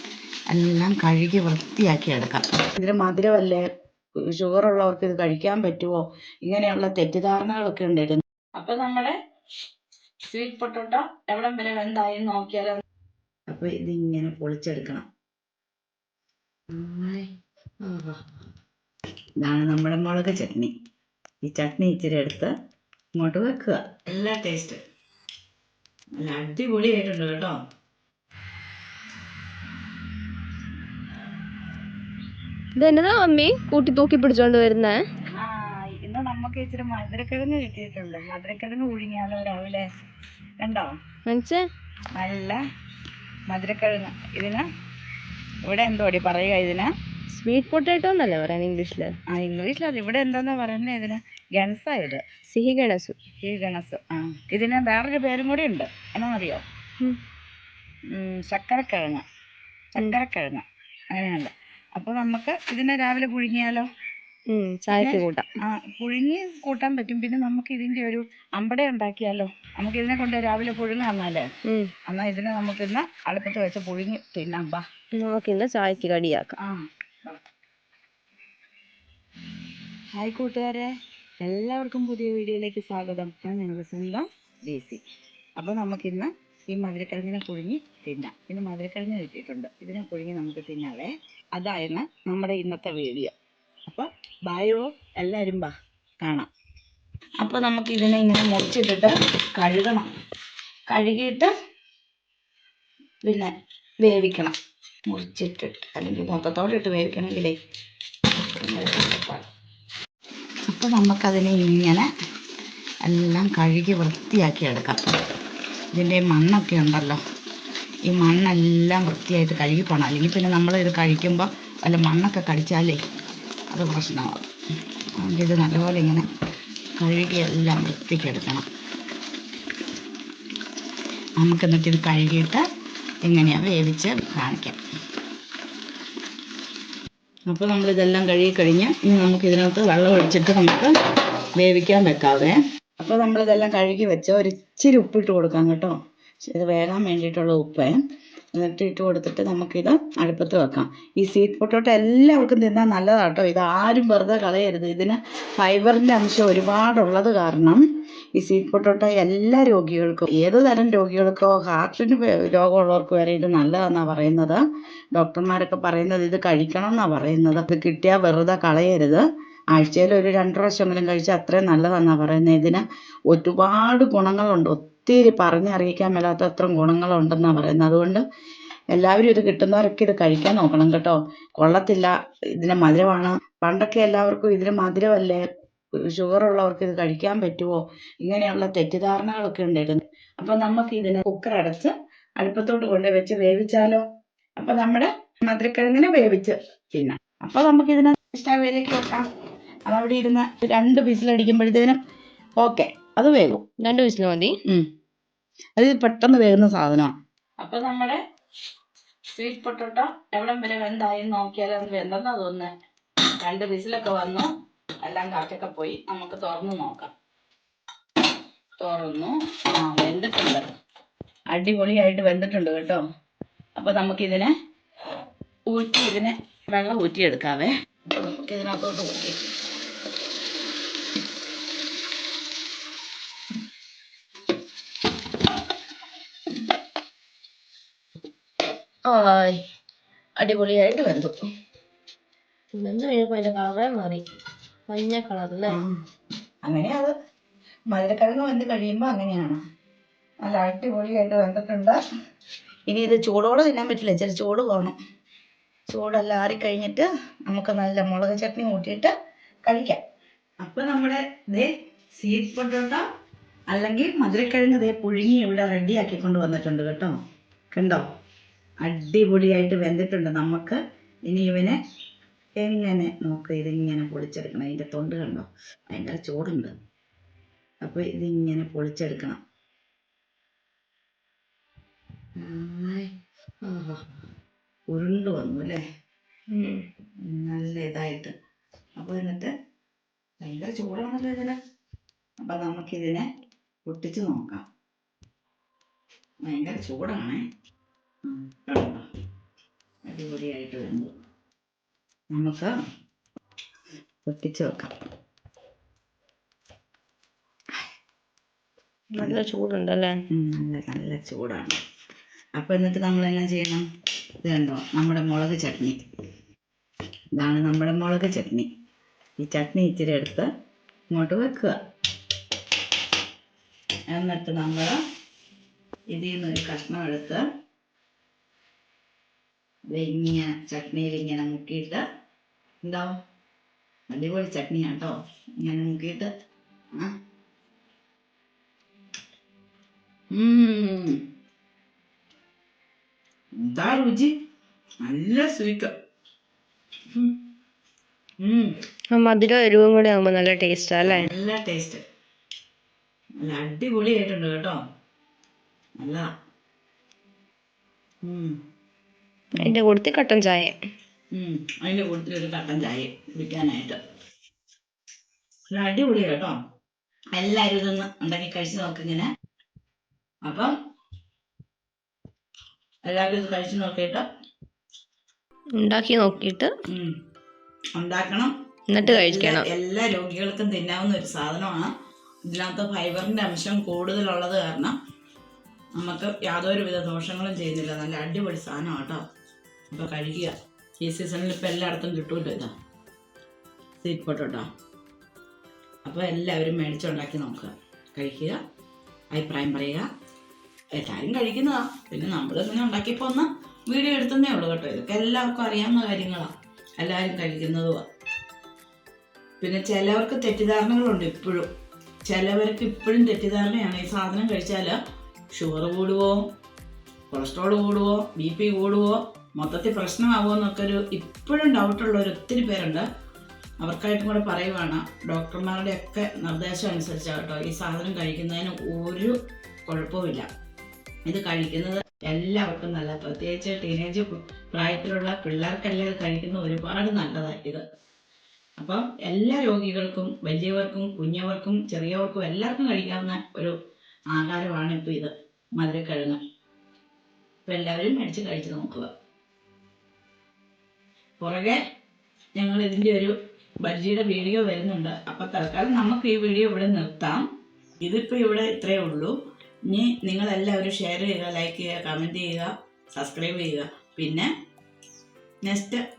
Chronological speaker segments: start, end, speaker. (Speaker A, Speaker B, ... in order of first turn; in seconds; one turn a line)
Speaker A: 0.5-3.6
Speaker A: 4.3-9.2
Speaker A: 10.3-12.8
Speaker A: 13.5-15.1
Speaker B: 16.7-17.3
Speaker B: 17.8-18.2
Speaker A: 19.4-20.7
Speaker A: 21.4-22.5
Speaker A: 23.2-24.8
Speaker A: 26.2-27.6
Speaker B: 32.8-35.0
Speaker A: 35.3-39.9
Speaker A: 40.6-40.9
Speaker B: 41.2-41.6
Speaker A: 42.1-42.6
Speaker A: 43.5-44.6
Speaker A: 45.6-46.9
Speaker B: 47.3-49.1
Speaker A: 49.3-52.2
Speaker B: 52.5-53.2
Speaker A: 53.4-56.6
Speaker A: 58.1-59.2
Speaker A: 60.0-63.9
Speaker B: 64.5-65.5
Speaker A: 64.9-71.4
Speaker B: 71.7-71.9
Speaker A: 72.1-74.8
Speaker B: 75.1-76.5
Speaker A: 76.6-77.4
Speaker A: 80.2-80.9
Speaker A: 81.4-85.0
Speaker A: 85.6-93.3
Speaker A: 93.9-96.5
Speaker A: 97.4-100.1
Speaker A: 100.9-101.5
Speaker A: 103.2-103.5
Speaker A: 104.0-104.5
Speaker A: 105.1-107.5
Speaker A: 108.6-109.4
Speaker A: 110.7-112.1
Speaker A: 113.0-115.0
Speaker A: 115.9-117.2
Speaker A: 118.1-123.0
Speaker A: 123.7-124.4
Speaker A: 125.2-126.2
Speaker A: 127.0-128.7
Speaker A: 131.4-132.6
Speaker A: 133.2-134.8
Speaker A: 137.5-140.9
Speaker A: 141.6-148.0
Speaker A: 148.5-157.8
Speaker A: 158.3-164.6
Speaker A: 165.1-178.2
Speaker A: 178.9-185.4
Speaker A: 185.9-194.0
Speaker A: 194.6-199.2
Speaker A: 199.9-202.0
Speaker A: 202.6-203.6
Speaker B: 203.8-204.6
Speaker A: 205.8-208.2
Speaker A: 209.3-212.7
Speaker A: 213.4-214.5
Speaker A: 215.0-217.1
Speaker A: 218.8-220.7
Speaker A: 221.5-223.0
Speaker A: 223.8-224.5
Speaker A: 225.7-229.4
Speaker A: 239.1-239.5
Speaker A: 240.4-241.3
Speaker B: 242.7-244.2
Speaker B: 244.9-245.8
Speaker A: 245.7-245.9
Speaker A: 246.6-247.1
Speaker A: 247.9-249.6
Speaker A: 250.4-252.0
Speaker A: 252.9-254.9
Speaker A: 255.9-259.1
Speaker A: 259.6-260.0
Speaker A: 260.6-263.0
Speaker A: 263.7-267.1
Speaker A: 267.7-268.1
Speaker A: 268.8-271.8
Speaker A: 272.6-276.7
Speaker A: 277.8-279.4
Speaker B: 282.5-283.1
Speaker B: 283.6-284.0
Speaker A: 284.9-285.8
Speaker B: 286.5-286.9
Speaker A: 287.2-288.3
Speaker A: 289.0-289.5
Speaker A: 290.4-291.6
Speaker A: 292.4-293.2
Speaker A: 293.9-294.6
Speaker A: 296.4-297.4
Speaker A: 298.2-299.1
Speaker A: 300.1-301.1
Speaker A: 302.3-302.7
Speaker A: 304.2-304.9
Speaker B: 309.1-310.2
Speaker A: 310.3-311.8
Speaker A: 312.6-313.8
Speaker A: 314.4-316.0
Speaker A: 317.4-318.7
Speaker A: 319.4-320.5
Speaker A: 321.1-321.8
Speaker A: 324.1-325.0
Speaker A: 326.1-327.4
Speaker A: 329.9-332.0
Speaker A: 332.8-333.2
Speaker A: 334.1-336.3
Speaker A: 340.3-341.2
Speaker A: 343.6-344.3
Speaker A: 345.0-345.9
Speaker A: 348.4-348.7
Speaker B: 349.1-351.3
Speaker A: 351.0-352.0
Speaker A: 353.4-354.8
Speaker A: 356.0-356.3
Speaker A: 358.2-358.6
Speaker B: 359.6-360.7
Speaker A: 361.3-364.0
Speaker A: 365.7-366.6
Speaker A: 367.3-369.3
Speaker A: 370.4-370.7
Speaker A: 373.1-374.2
Speaker B: 375.8-376.7
Speaker A: 378.0-378.5
Speaker B: 378.9-379.7
Speaker A: 379.0-381.9
Speaker A: 382.5-384.9
Speaker A: 386.0-389.2
Speaker A: 389.9-392.7
Speaker A: 394.0-394.7
Speaker A: 396.0-398.6
Speaker A: 399.3-400.1
Speaker A: 400.9-408.0
Speaker A: 409.6-411.7
Speaker A: 412.3-415.0
Speaker A: 415.5-416.4
Speaker A: 417.3-423.1
Speaker A: 423.8-429.4
Speaker A: 429.9-430.5
Speaker A: 431.2-437.8
Speaker A: 438.8-443.8
Speaker A: 444.3-446.4
Speaker A: 447.6-449.1
Speaker A: 451.4-451.8
Speaker A: 452.6-457.5
Speaker A: 458.0-459.3
Speaker A: 459.9-464.5
Speaker A: 465.6-466.0